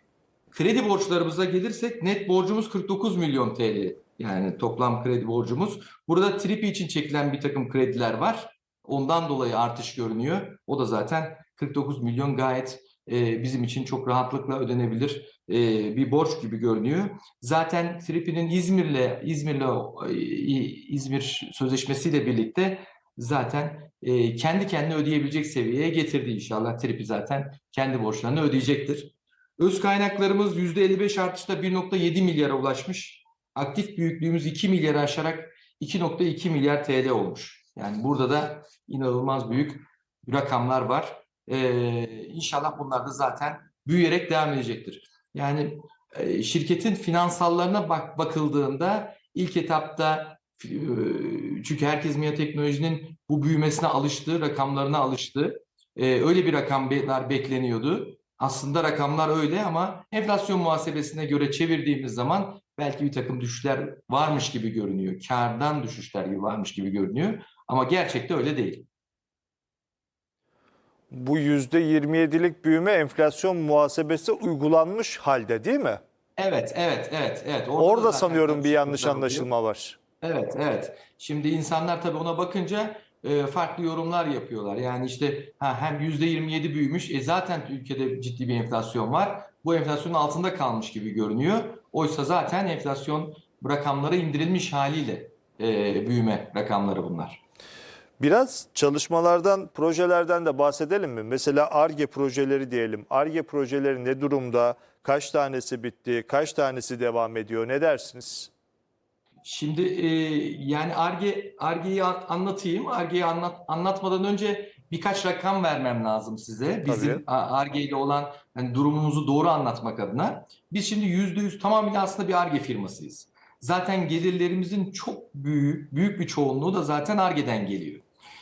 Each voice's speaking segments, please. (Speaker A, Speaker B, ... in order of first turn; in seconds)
Speaker A: 0.5-68.9, 76.4-79.5, 80.2-97.4, 109.4-128.1
Speaker B: 71.1-76.0, 77.8-80.0, 98.2-108.5, 116.9-117.2